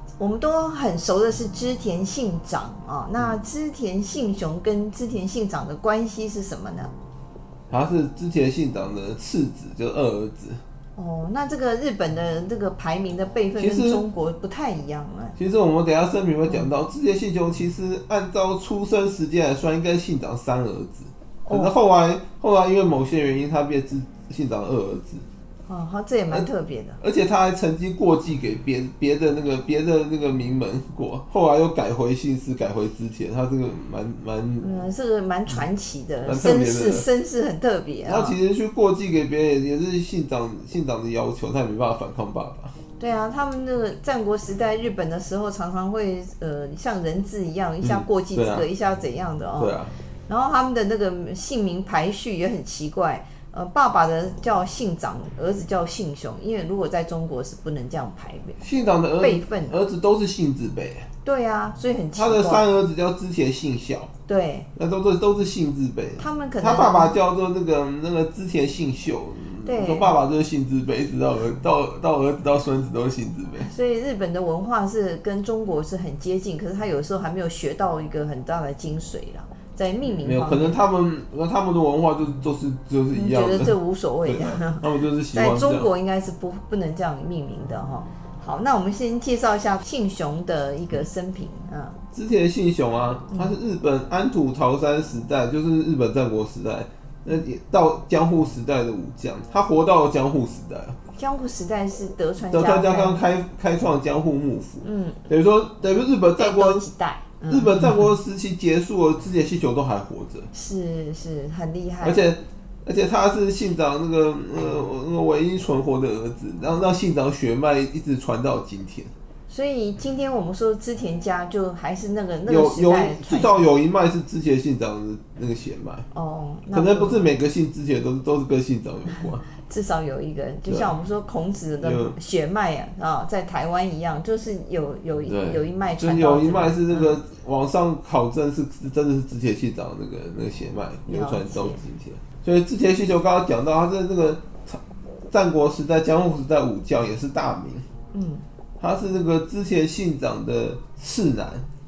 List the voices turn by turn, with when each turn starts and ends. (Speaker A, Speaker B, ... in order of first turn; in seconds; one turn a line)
Speaker A: 0.2-6.9
Speaker B: 7.7-10.6
Speaker A: 10.9-15.4
Speaker B: 13.6-14.0
Speaker B: 15.4-25.2
Speaker A: 16.4-16.7
Speaker A: 21.4-21.7
Speaker A: 25.7-27.0
Speaker B: 27.0-34.7
Speaker A: 34.6-38.4
Speaker B: 36.2-37.1
Speaker B: 38.0-42.7
Speaker A: 43.0-58.6
Speaker B: 47.8-48.7
Speaker B: 49.6-49.9
Speaker B: 58.6-61.1
Speaker A: 59.2-59.8
Speaker A: 61.2-62.6
Speaker B: 62.1-64.1
Speaker A: 64.2-64.7
Speaker B: 64.7-73.7
Speaker A: 66.2-67.2
Speaker A: 69.6-70.2
Speaker A: 73.6-80.8
Speaker B: 80.2-85.9
Speaker A: 83.1-92.0
Speaker B: 92.1-101.0
Speaker A: 93.3-93.5
Speaker A: 101.2-103.2
Speaker B: 102.5-106.8
Speaker A: 104.8-105.3
Speaker A: 106.3-108.1
Speaker B: 107.5-110.5
Speaker A: 110.5-112.3
Speaker B: 112.0-119.1
Speaker A: 119.5-123.7
Speaker B: 122.5-126.0
Speaker A: 126.1-127.3
Speaker B: 126.7-129.4
Speaker A: 129.6-137.2
Speaker B: 131.8-132.1
Speaker B: 135.3-147.8
Speaker A: 141.1-141.8
Speaker A: 148.1-148.4
Speaker B: 148.8-151.6